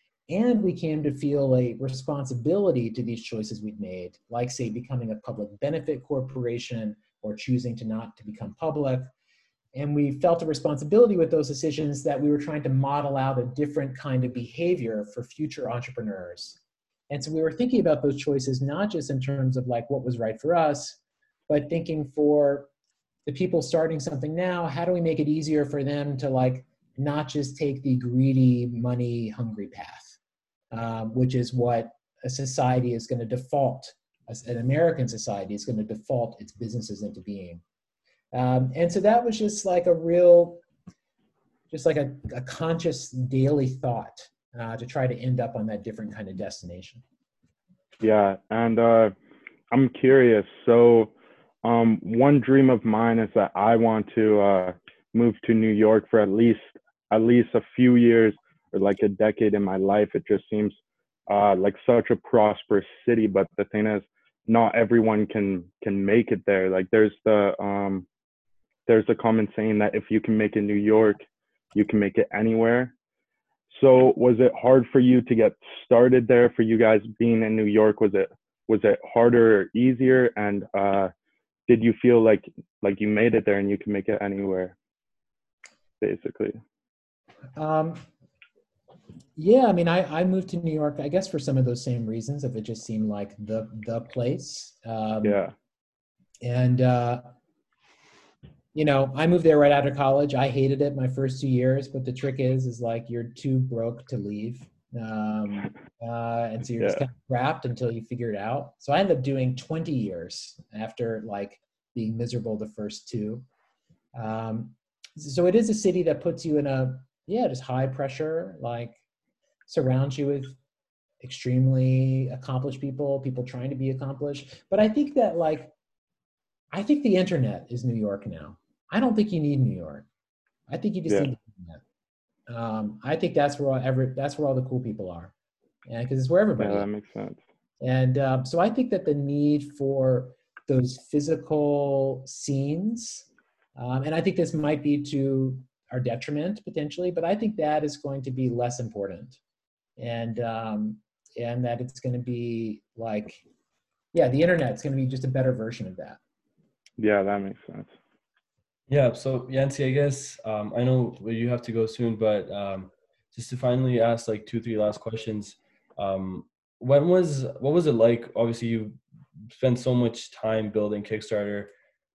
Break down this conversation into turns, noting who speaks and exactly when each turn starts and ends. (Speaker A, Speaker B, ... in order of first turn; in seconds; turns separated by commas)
Speaker A: 0.3-9.1, Speaker A: 9.7-16.6, Speaker A: 17.1-22.7, Speaker A: 23.2-30.2, Speaker A: 30.7-37.6, Speaker A: 38.3-40.6, Speaker A: 41.7-47.0, Speaker B: 48.0-49.1, Speaker B: 49.7-51.1, Speaker B: 51.6-60.8, Speaker B: 61.3-68.0, Speaker B: 68.9-71.2, Speaker B: 71.7-72.9, Speaker B: 73.7-81.1, Speaker B: 81.7-84.8, Speaker B: 86.0-86.6, Speaker A: 87.5-88.0, Speaker A: 89.4-95.4, Speaker B: 95.2-95.5, Speaker A: 96.4-97.3, Speaker A: 98.7-113.4, Speaker B: 106.8-107.0, Speaker A: 114.1-119.0, Speaker A: 119.7-120.6, Speaker A: 121.2-125.7, Speaker A: 126.7-130.1, Speaker A: 130.7-131.8, Speaker A: 132.5-135.3, Speaker A: 135.9-136.9, Speaker B: 136.6-137.4, Speaker A: 137.8-149.4, Speaker A: 150.0-153.4, Speaker A: 154.1-156.2, Speaker B: 157.0-157.9, Speaker C: 158.9-169.0, Speaker C: 169.5-171.7